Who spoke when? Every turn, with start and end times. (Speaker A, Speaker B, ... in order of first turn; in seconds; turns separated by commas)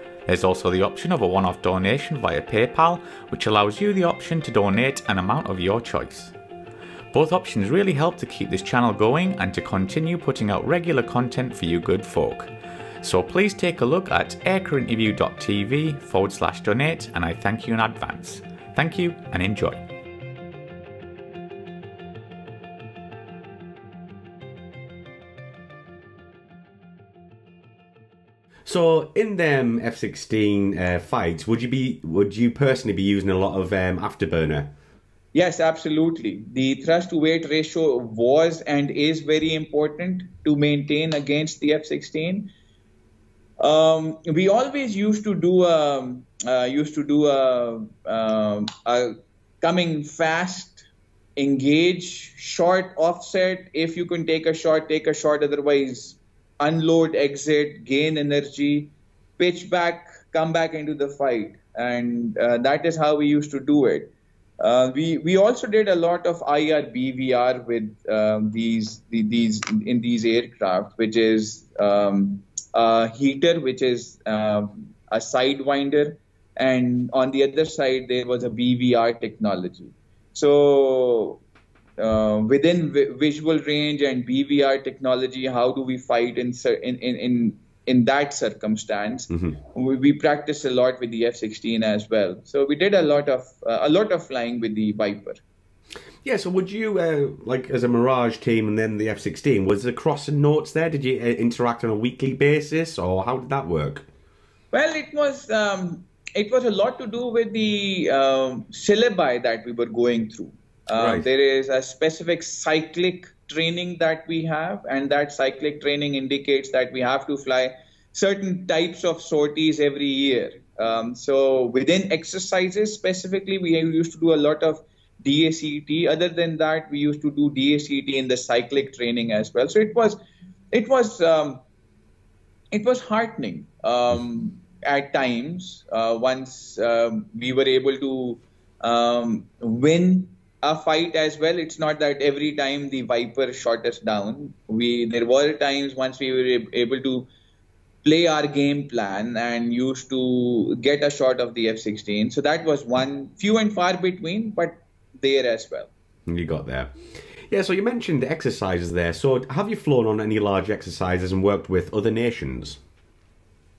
Speaker A: 0.3-6.3, Speaker A: 7.1-12.5, Speaker A: 13.0-19.8, Speaker B: 28.6-34.7, Speaker C: 35.3-42.5, Speaker C: 43.6-50.8, Speaker C: 51.4-81.4, Speaker C: 82.0-95.4, Speaker B: 96.2-104.0, Speaker C: 104.7-130.2, Speaker B: 110.9-111.3, Speaker C: 130.7-131.6, Speaker C: 132.7-147.3, Speaker C: 148.0-155.9, Speaker B: 156.3-156.9, Speaker B: 157.5-162.8